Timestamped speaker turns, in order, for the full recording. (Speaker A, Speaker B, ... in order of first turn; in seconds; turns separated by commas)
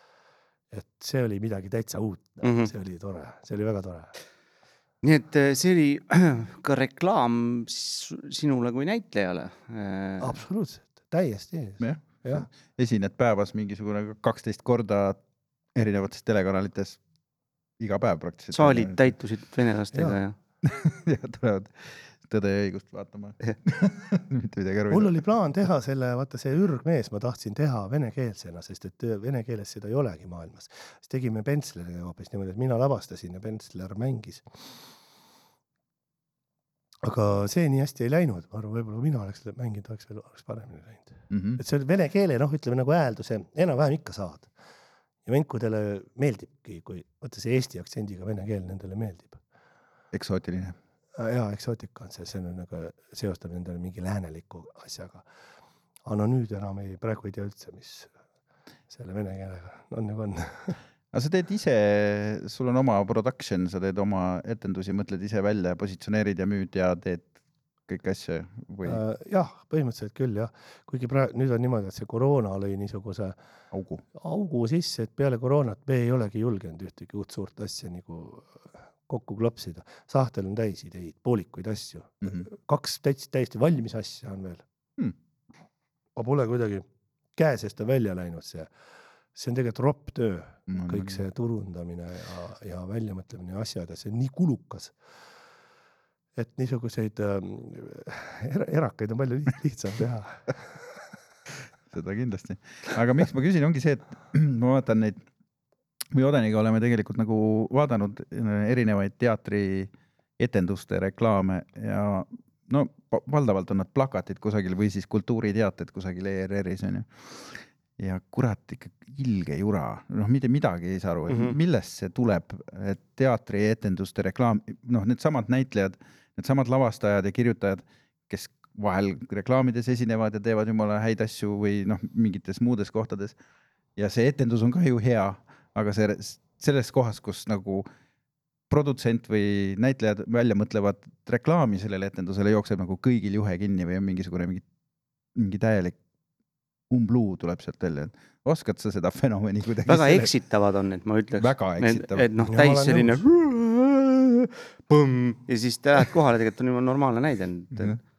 Speaker A: 0.7-4.1, Speaker B: 2.4-2.7, Speaker B: 5.0-10.4, Speaker A: 10.2-12.5, Speaker C: 11.8-15.2, Speaker C: 15.8-17.0, Speaker C: 17.8-19.1, Speaker B: 18.5-20.4, Speaker C: 20.6-25.2, Speaker A: 24.9-34.8, Speaker A: 37.0-44.5, Speaker C: 41.3-41.6, Speaker A: 45.3-49.4, Speaker C: 50.1-50.8, Speaker A: 51.2-55.3, Speaker A: 56.0-58.1, Speaker A: 58.9-60.8, Speaker C: 61.1-67.3, Speaker C: 67.9-69.0, Speaker A: 68.8-73.4, Speaker C: 73.7-74.0, Speaker A: 74.1-84.7, Speaker A: 86.2-88.7, Speaker A: 89.3-95.0, Speaker C: 90.7-91.2, Speaker A: 96.3-101.0, Speaker C: 101.9-105.2, Speaker C: 106.1-133.4, Speaker B: 121.3-121.6, Speaker C: 134.0-137.9, Speaker C: 138.7-144.6, Speaker C: 145.3-146.0, Speaker C: 146.9-150.3, Speaker B: 149.9-158.0, Speaker C: 151.4-152.3, Speaker A: 152.5-153.2